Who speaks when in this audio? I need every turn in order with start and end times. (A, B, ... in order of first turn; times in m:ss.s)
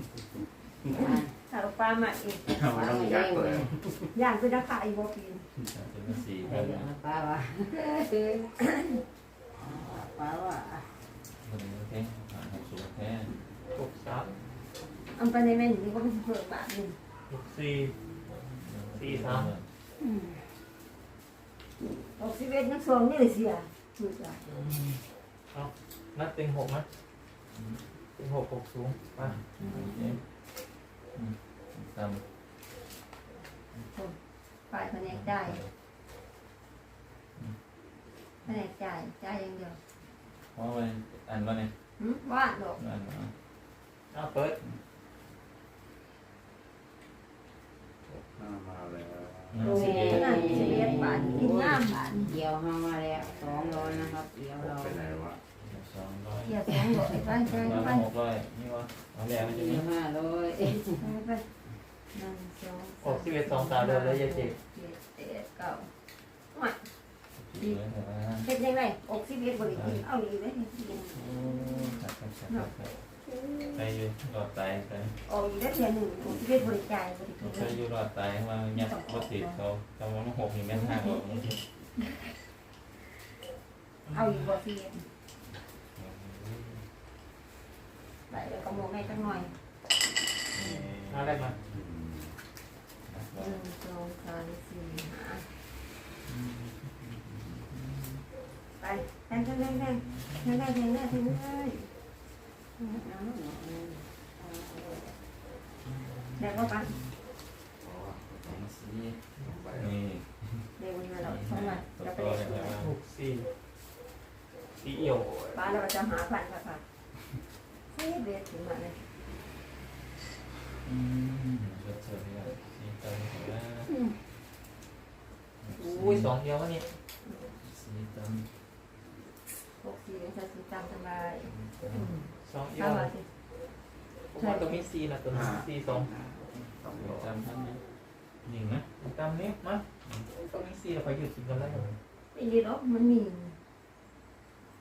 0:00.9-0:01.3 A
0:01.4-0:02.8 B
0:02.4-0:04.1 C
0:02.8-0:03.7 A
0:04.1-0:05.5 B
0:05.7-0:06.9 D
0:06.4-0:08.5 A
0:08.6-0:08.9 B
0:09.6-0:11.0 A
0:11.4-0:13.4 D
0:13.7-0:14.4 E
0:15.1-0:17.0 B
0:17.3-0:17.9 E
0:18.3-0:19.7 D
0:18.9-0:19.5 E
0:20.0-0:20.4 A
0:22.2-0:24.4 B
0:24.5-0:25.0 D
0:25.5-0:26.8 E
0:27.5-0:27.8 D
0:28.2-0:29.4 E
0:29.2-0:30.2 D
0:29.6-0:30.1 A
0:31.1-0:32.2 D
0:34.7-0:35.6 B
0:35.1-0:35.7 D
0:38.4-0:39.8 B
0:40.5-0:41.7 D
0:42.0-0:42.8 B
0:42.8-0:43.3 D
0:44.1-0:44.6 E
0:48.3-0:49.7 C
0:49.5-0:51.3 D
0:49.6-0:55.0 A
0:49.7-0:52.3 B
0:53.1-0:55.4 C
0:55.6-0:56.6 D
0:56.4-0:58.1 B
0:57.4-0:59.9 D
0:59.3-1:01.0 A
1:00.9-1:01.4 B
1:02.1-1:05.9 B
1:03.0-1:04.6 E
1:06.5-1:06.9 B
1:07.4-1:08.5 D
1:08.4-1:11.3 B
1:09.7-1:10.0 D
1:11.1-1:12.9 D
1:12.5-1:12.7 B
1:13.4-1:13.7 B
1:13.7-1:15.2 D
1:15.2-1:17.8 B
1:16.2-1:16.7 D
1:17.4-1:21.6 D
1:18.8-1:19.6 B
1:20.8-1:21.5 B
1:24.1-1:24.5 E
1:24.1-1:25.0 B
1:26.0-1:26.8 D
1:28.3-1:29.5 B
1:30.5-1:31.6 D
1:31.1-1:31.6 E
1:31.6-1:32.3 C
1:33.1-1:33.6 D
1:33.4-1:35.4 B
1:36.2-1:38.2 D
1:38.8-1:41.9 B
1:39.4-1:40.5 D
1:42.8-1:45.1 A
1:45.8-1:47.1 D
1:46.4-1:46.9 B
1:47.8-1:48.6 C
1:48.4-1:49.2 D
1:49.4-1:49.9 C
1:49.8-1:52.9 D
1:50.8-1:52.8 B
1:52.8-1:53.5 E
1:54.8-1:55.5 E
1:55.5-1:56.8 B
1:57.9-1:59.0 B
2:00.8-2:03.9 D
2:05.6-2:06.4 D
2:05.8-2:06.9 E
2:07.2-2:07.5 B
2:07.6-2:08.5 D
2:09.8-2:13.3 B
2:11.4-2:12.2 D
2:12.4-2:13.1 E
2:14.3-2:16.1 E
2:14.4-2:14.8 B
2:15.3-2:17.3 C
2:16.5-2:17.8 D
2:18.4-2:18.8 D
2:19.0-2:19.8 E
2:20.0-2:20.3 D
2:20.4-2:21.9 E
2:21.5-2:22.0 D
2:22.3-2:23.6 B